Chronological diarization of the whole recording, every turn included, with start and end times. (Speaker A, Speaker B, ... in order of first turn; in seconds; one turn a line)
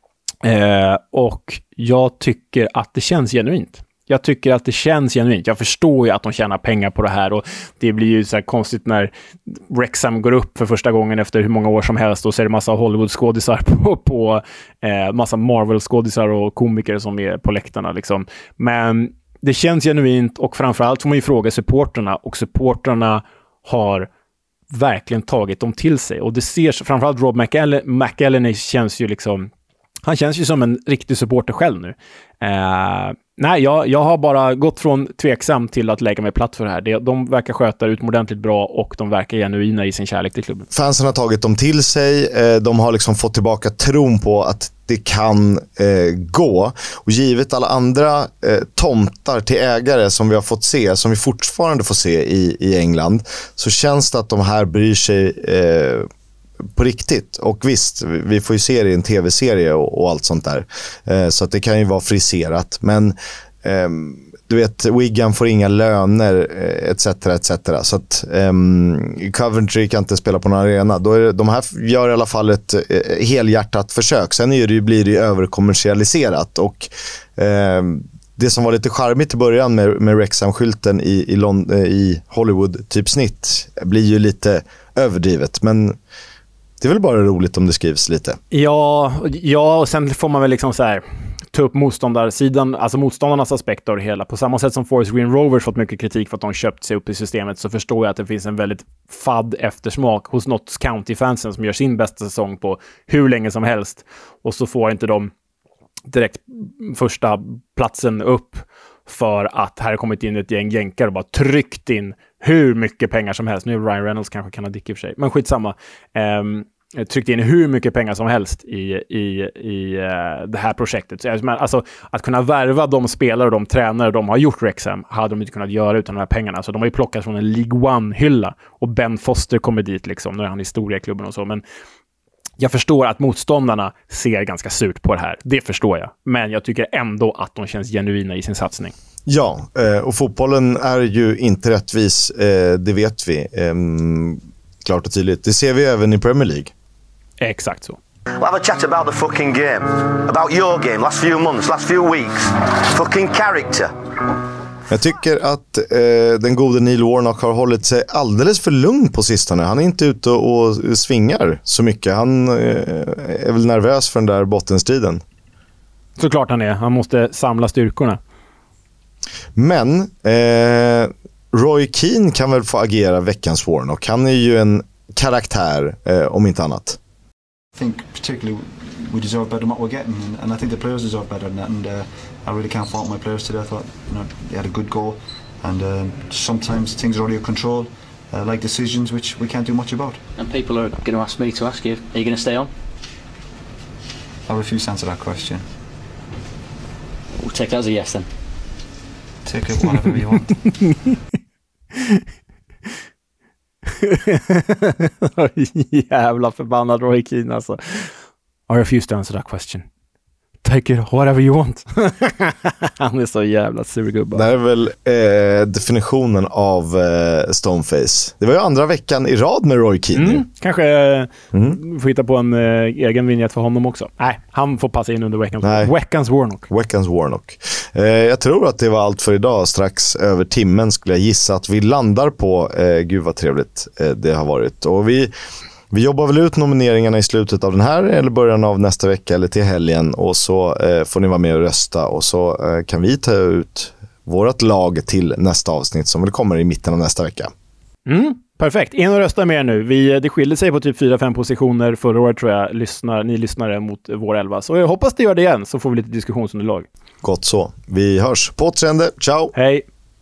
Speaker A: 0.4-24.1
Speaker A: 24.7-29.5
Speaker A: 30.0-40.7
Speaker B: 40.7-56.1
Speaker B: 56.7-86.0
Speaker B: 86.8-88.4
Speaker A: 88.5-105.3
Speaker A: 106.1-131.6
Speaker A: 132.6-138.9
Speaker B: 139.3-146.7
Speaker A: 147.4-148.0
Speaker C: 148.4-153.9
Speaker B: 154.9-165.2
Speaker A: 166.2-168.2
Speaker B: 169.5-177.0
Speaker D: 177.7-190.2
Speaker E: 190.4-192.7
Speaker D: 194.4-195.6
Speaker E: 197.4-198.3
Speaker D: 199.4-200.6
Speaker A: 200.8-201.2
Speaker A: 201.9-202.2
Speaker A: 204.0-208.1
Speaker A: 208.7-209.8
Speaker A: 210.6-214.4
Speaker B: 214.3-220.4
Speaker A: 220.1-226.7
Speaker B: 225.6-225.9
Speaker B: 226.7-235.3
Speaker B: 235.9-247.5
Speaker A: 248.1-256.9
Speaker B: 257.2-259.5
Speaker A: 259.5-259.8